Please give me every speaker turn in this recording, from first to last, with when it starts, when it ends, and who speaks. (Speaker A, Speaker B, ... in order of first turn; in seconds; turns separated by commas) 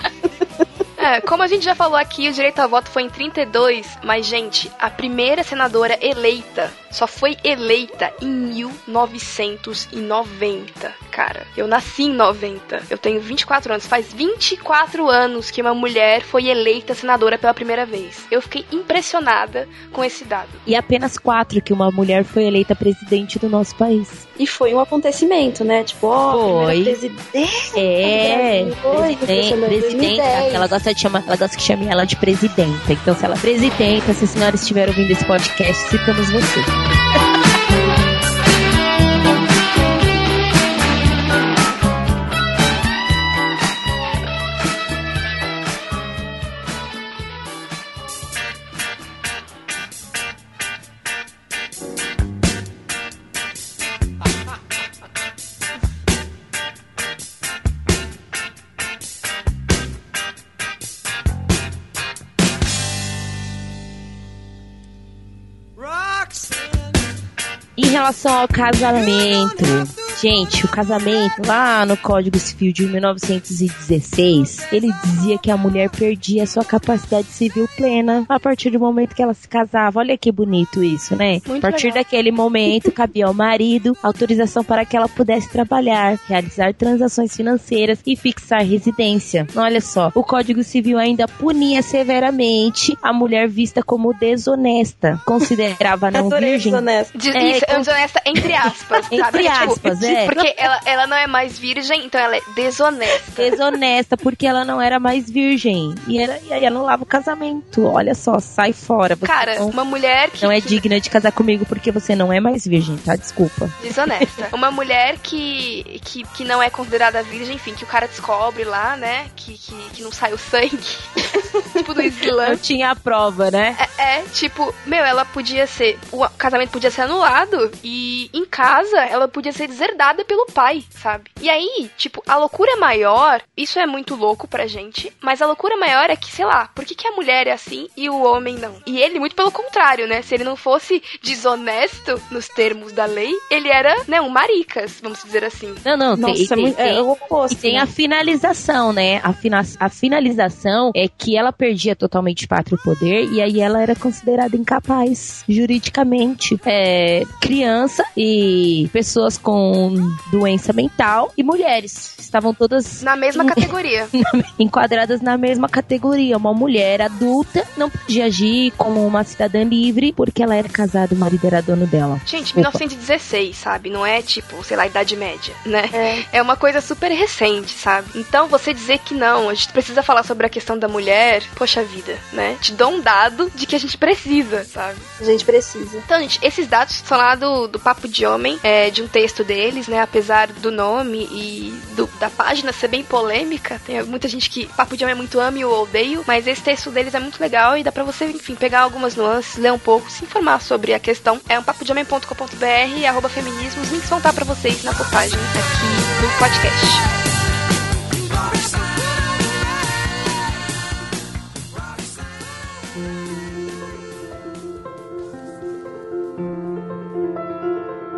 Speaker A: 1.0-20.6, Speaker B: 20.6-24.2, Speaker C: 24.4-30.7, Speaker B: 26.3-27.0, Speaker B: 27.8-36.7, Speaker B: 67.8-97.9, Speaker A: 81.5-82.0, Speaker C: 96.1-97.1, Speaker A: 97.1-103.6, Speaker B: 99.1-100.5, Speaker B: 103.4-109.8, Speaker A: 109.2-110.8, Speaker B: 110.4-114.2, Speaker A: 113.8-122.6, Speaker B: 122.4-123.8, Speaker A: 123.8-145.8, Speaker B: 145.8-163.7, Speaker C: 146.1-147.9, Speaker A: 163.0-164.1, Speaker B: 164.2-172.8, Speaker A: 172.2-185.1, Speaker C: 175.9-176.2, Speaker C: 185.2-186.1, Speaker A: 186.1-207.0